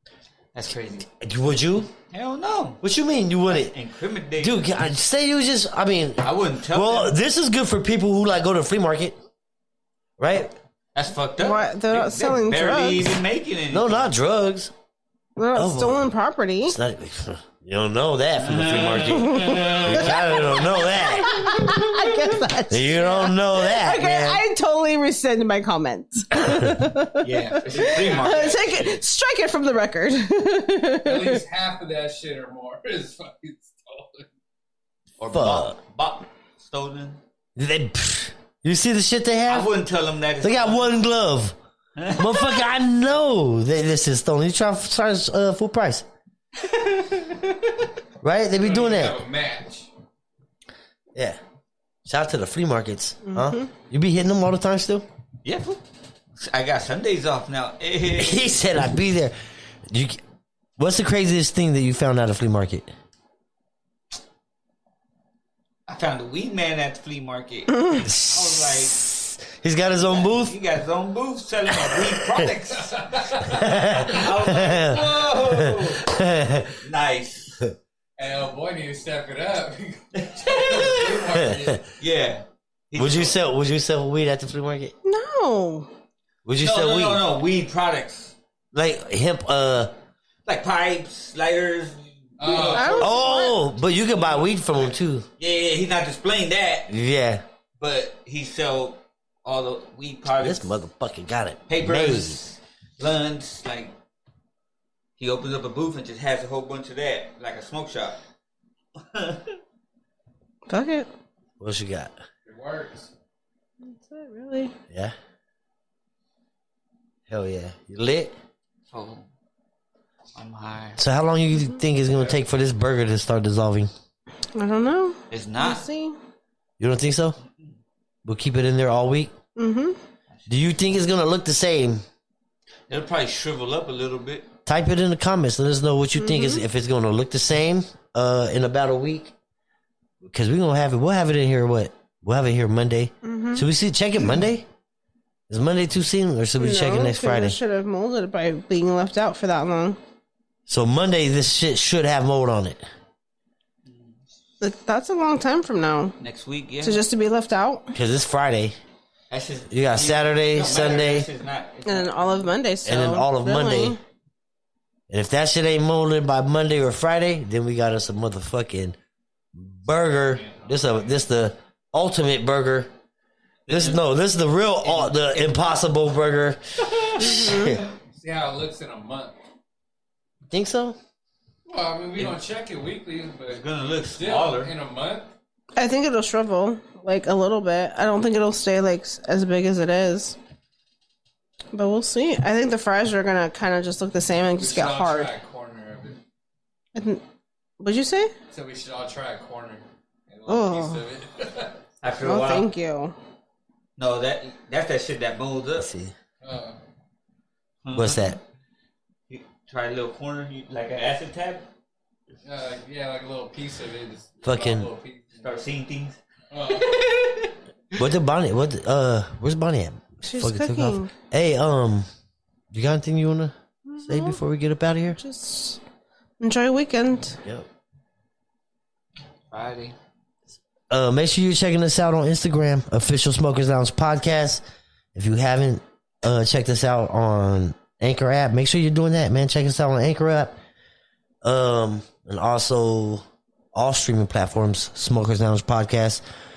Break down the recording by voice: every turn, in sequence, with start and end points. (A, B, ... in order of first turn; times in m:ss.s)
0:00.5-0:01.1 A
0:01.1-0:01.9 B
0:02.1-0:02.8 A
0:02.8-0:03.7 B
0:03.5-0:04.7 A
0:04.4-0:09.2 B
0:06.2-0:07.2 A
0:10.2-0:10.5 B
0:10.9-0:14.1 A
0:11.4-0:13.2 C
0:13.7-0:14.7 B
0:15.4-0:16.8 C
0:15.5-0:16.1 B
0:16.6-0:21.8 B
0:18.4-0:20.8 A
0:19.1-0:31.4 C
0:22.7-0:24.4 B
0:26.4-0:26.7 B
0:27.2-0:28.9 A
0:27.7-0:29.0 D
0:31.0-0:34.3 D
0:35.2-0:37.2 A
0:35.3-0:35.7 B
0:37.6-0:39.7 B
0:39.5-0:40.9 A
0:40.4-0:41.5 B
0:42.0-0:42.6 A
0:42.1-0:46.0 B
0:46.6-0:47.8 A
0:48.2-0:49.2 B
0:48.5-0:49.9 D
0:52.0-0:55.0 B
0:53.3-0:53.7 C
0:55.4-0:55.8 A
0:56.3-0:58.6 A
0:58.1-0:59.3 B
0:59.9-1:00.2 B
1:00.8-1:02.9 B
1:05.9-1:09.0 A
1:08.0-1:10.5 B
1:10.0-1:16.2 A
1:11.9-1:12.5 B
1:12.8-1:13.8 D
1:13.5-1:16.8 B
1:16.8-1:17.6 A
1:18.2-1:21.8 D
1:20.1-1:21.4 A
1:21.3-1:21.8 B
1:22.0-1:23.4 A
1:23.0-1:24.9 B
1:25.0-1:25.9 C
1:26.4-1:27.2 B
1:26.6-1:28.4 A
1:28.7-1:29.9 B
1:30.4-1:33.2 A
1:32.4-1:33.1 D
1:32.5-1:33.6 C
1:33.0-1:35.2 B
1:34.1-1:34.6 D
1:35.4-1:36.9 A
1:36.9-1:37.4 B
1:37.8-1:40.7 A
1:40.4-1:42.4 B
1:41.7-1:43.9 A
1:45.2-1:48.2 A
1:49.0-1:49.5 A
1:50.7-1:51.1 C
1:51.6-1:52.1 B
1:52.4-1:53.1 D
1:53.8-1:54.7 C
1:57.3-1:58.3 B
1:58.9-1:59.3 A
2:00.3-2:01.0 A
2:01.0-2:03.9 B
2:04.5-2:06.2 C
2:05.3-2:05.8 A
2:06.8-2:07.4 B
2:08.2-2:09.3 B
2:09.6-2:10.0 C
2:10.3-2:10.6 A
2:10.5-2:12.0 B
2:12.9-2:14.5 A
2:14.6-2:19.3 B
2:16.2-2:16.6 C
2:20.2-2:24.7 B
2:23.2-2:23.7 C
2:25.5-2:27.6 B
2:26.6-2:30.0 C
2:30.7-2:32.8 B
2:33.8-2:34.2 A
2:34.6-2:36.1 C
2:36.2-2:37.0 A
2:36.8-2:37.9 C
2:37.9-2:38.8 B
2:39.3-2:42.5 A
2:39.7-2:41.3 B
2:41.8-2:44.0 C
2:42.8-2:44.0 B
2:45.1-2:49.0 B
2:49.5-2:52.9 B
2:50.3-2:51.2 D
2:53.7-2:54.0 A
2:53.7-2:56.6 B
2:54.8-2:55.7 A
2:56.8-2:57.5 A
2:57.2-2:57.8 C
2:57.2-2:57.8 B
2:57.9-2:59.4 D
3:00.5-3:01.0 B
3:01.7-3:05.3 D
3:03.5-3:04.7 A
3:05.8-3:10.4 C
3:11.7-3:15.3 C
3:14.5-3:16.2 D
3:16.9-3:17.2 C
3:17.8-3:18.3 C
3:18.5-3:21.8 D
3:20.5-3:21.0 C
3:22.0-3:22.7 A
3:22.2-3:23.1 C
3:24.0-3:25.9 A
3:25.8-3:26.1 B
3:26.4-3:26.8 D
3:27.8-3:28.4 A
3:27.9-3:28.4 B
3:29.3-3:31.7 A
3:32.4-3:35.5 D
3:34.4-3:34.9 B
3:35.3-3:37.5 A
3:36.5-3:37.0 D
3:38.0-3:42.1 B
3:40.2-3:41.1 C
3:42.7-3:43.5 B
3:43.8-3:44.4 C
3:44.0-3:45.2 B
3:45.2-3:45.8 C
3:46.4-3:47.4 C
3:49.5-3:49.9 A
3:50.9-3:54.6 B
3:55.1-4:00.5 B
4:01.4-4:03.2 B
4:03.7-4:06.2 B